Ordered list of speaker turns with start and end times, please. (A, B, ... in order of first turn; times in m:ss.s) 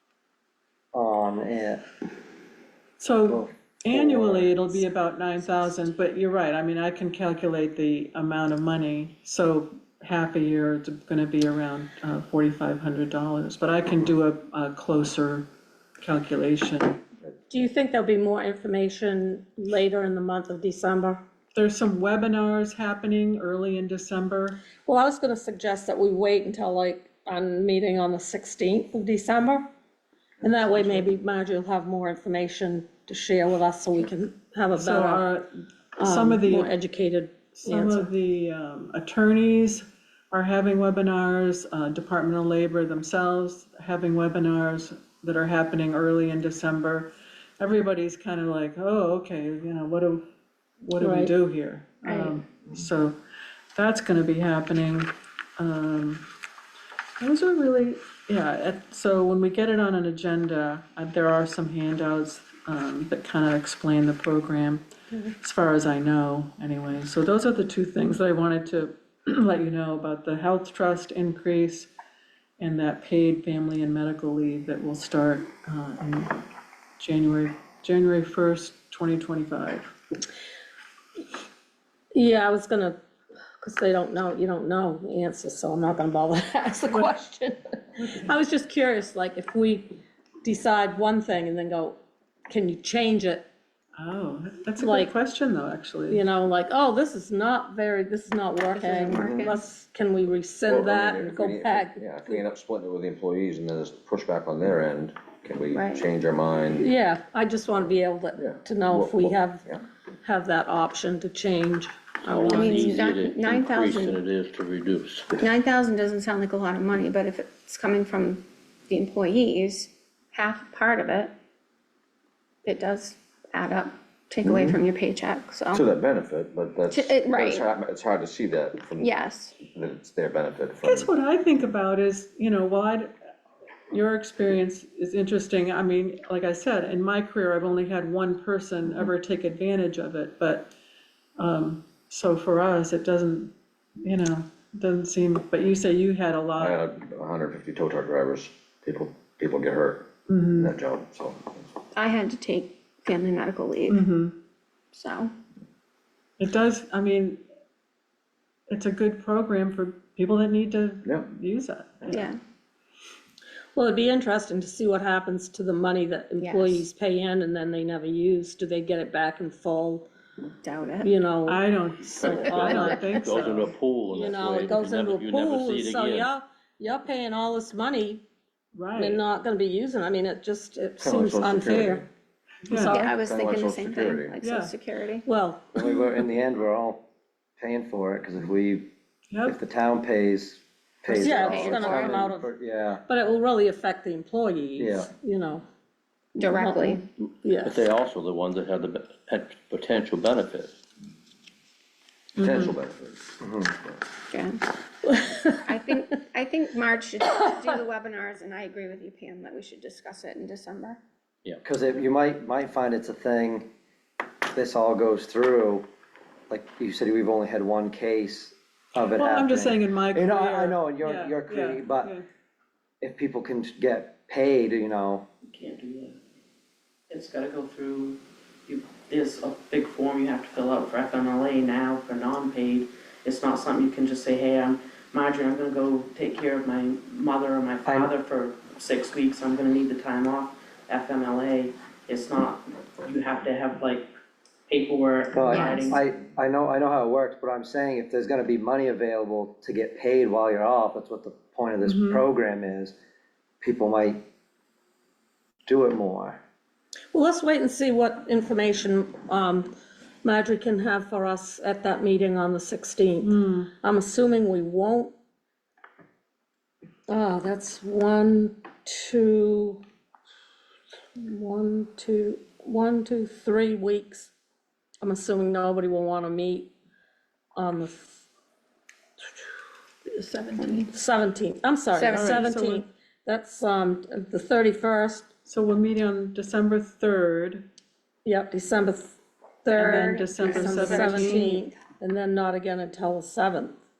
0:00.9-0:01.8 A
0:03.0-0:15.5 B
0:03.3-0:04.7 A
0:16.0-0:17.0 B
0:17.5-0:21.2 C
0:21.5-0:24.6 B
0:24.9-0:29.6 C
0:30.4-0:35.3 C
0:34.8-0:35.5 B
0:36.0-0:38.1 C
0:36.0-0:36.7 B
0:37.5-0:50.2 B
0:50.8-0:53.2 B
0:51.0-0:51.3 C
0:52.1-0:52.4 D
0:53.8-0:56.2 B
0:57.2-1:04.8 B
1:05.4-1:11.9 B
1:12.6-1:16.4 B
1:17.0-1:19.9 B
1:22.1-1:23.0 C
1:23.6-1:29.9 C
1:30.4-1:33.5 C
1:34.0-1:36.2 B
1:34.8-1:35.1 C
1:36.1-1:42.4 C
1:38.7-1:39.6 D
1:40.6-1:46.9 E
1:45.7-1:46.1 D
1:46.7-1:49.6 C
1:48.3-1:49.8 E
1:50.2-1:52.8 C
1:52.2-1:55.6 F
1:52.5-1:54.2 D
1:55.4-2:01.3 D
2:02.6-2:05.8 D
2:04.4-2:04.8 E
2:05.7-2:09.1 E
2:06.9-2:07.7 D
2:09.0-2:09.6 D
2:09.6-2:11.1 E
2:10.8-2:13.1 B
2:13.9-2:20.7 B
2:21.4-2:26.9 B
2:26.6-2:31.7 E
2:30.3-2:30.7 B
2:31.9-2:34.0 D
2:33.9-2:34.3 B
2:34.9-2:35.3 D
2:36.4-2:37.4 B
2:38.7-2:42.3 B
2:42.1-2:42.4 D
2:43.8-2:50.1 C
2:46.4-2:46.9 D
2:50.6-2:51.1 D
2:51.0-2:53.0 C
2:51.5-2:53.7 B
2:52.2-2:56.3 F
2:52.7-2:53.5 D
2:54.1-2:58.2 C
2:58.8-2:59.2 B
2:58.9-3:02.0 C
3:01.0-3:02.1 E
3:02.7-3:03.0 B
3:02.7-3:03.2 C
3:02.8-3:05.3 D
3:03.2-3:04.4 E
3:04.4-3:04.7 B
3:05.3-3:05.9 C
3:05.7-3:07.0 A
3:07.6-3:08.9 A
3:09.3-3:09.6 B
3:09.5-3:13.0 A
3:11.1-3:12.3 D
3:11.1-3:12.5 C
3:13.1-3:15.6 C
3:14.8-3:15.1 A
3:16.4-3:17.0 D
3:16.4-3:17.9 C
3:17.6-3:20.7 F
3:22.4-3:24.0 E
3:22.4-3:22.7 B
3:23.4-3:23.7 A
3:24.3-3:24.6 D
3:25.0-3:26.2 C
3:25.7-3:31.0 D
3:31.6-3:33.7 A
3:34.5-3:35.9 A
3:36.5-3:42.1 A
3:39.0-3:42.2 B
3:43.0-3:45.3 A
3:45.5-3:46.2 G
3:47.1-4:04.1 G
3:57.9-3:58.1 A
4:04.7-4:06.0 G
4:05.3-4:13.0 A
4:05.4-4:06.0 D
4:11.8-4:12.2 B
4:13.6-4:14.2 A
4:15.7-4:16.4 A
4:17.1-4:19.7 C
4:20.2-4:25.1 C
4:23.2-4:23.7 B
4:27.1-4:29.8 C
4:31.2-4:34.3 C
4:35.0-4:36.7 C
4:37.6-4:38.2 C
4:40.2-4:45.3 C
4:40.5-4:40.9 D
4:41.9-4:42.5 D
4:42.1-4:42.8 B
4:45.4-4:47.6 B
4:48.2-4:49.1 C
4:49.6-4:53.8 C
4:49.7-4:51.9 D
4:49.7-4:51.6 B